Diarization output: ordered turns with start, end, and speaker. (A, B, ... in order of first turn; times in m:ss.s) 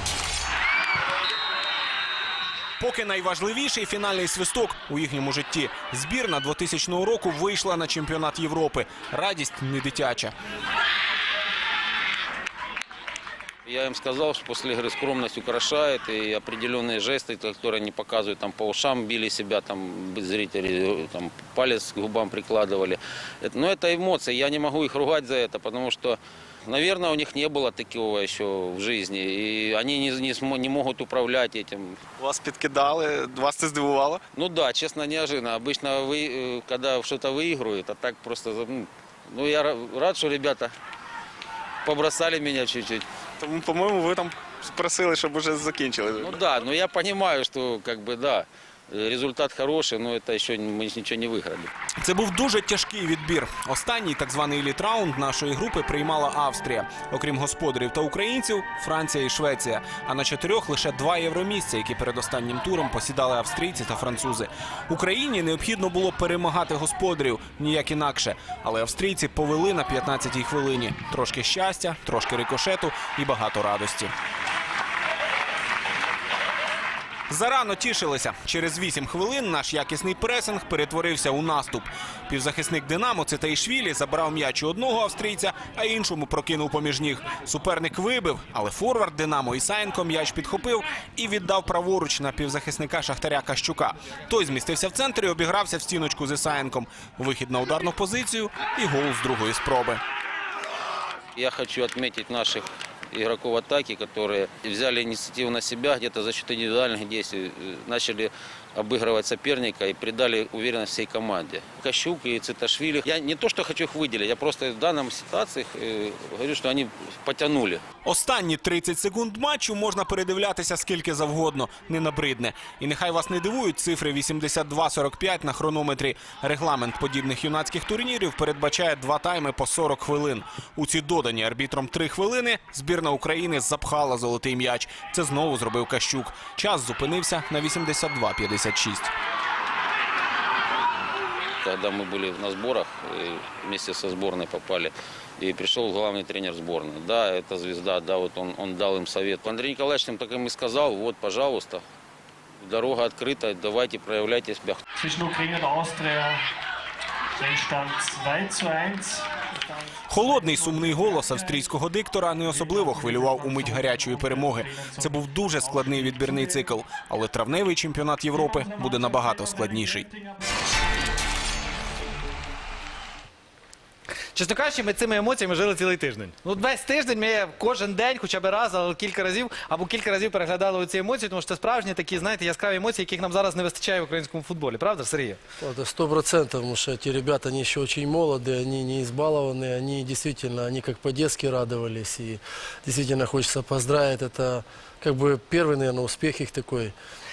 0:02.8-0:10.3 A
0:13.6-0:32.0 B
0:34.3-0:40.7 B
0:41.8-0:43.0 B
0:43.4-0:46.3 C
0:46.1-0:51.7 B
0:52.0-1:14.1 A
1:17.3-1:40.0 A
1:41.4-1:57.8 B
1:58.0-2:19.1 A
2:21.6-2:31.8 B
2:32.6-2:34.8 B
2:35.0-2:36.4 D
2:37.4-2:41.6 D
2:40.1-2:50.1 A
2:42.5-2:46.6 D
2:48.4-2:50.4 D
2:54.3-3:05.4 E
3:05.6-3:17.0 F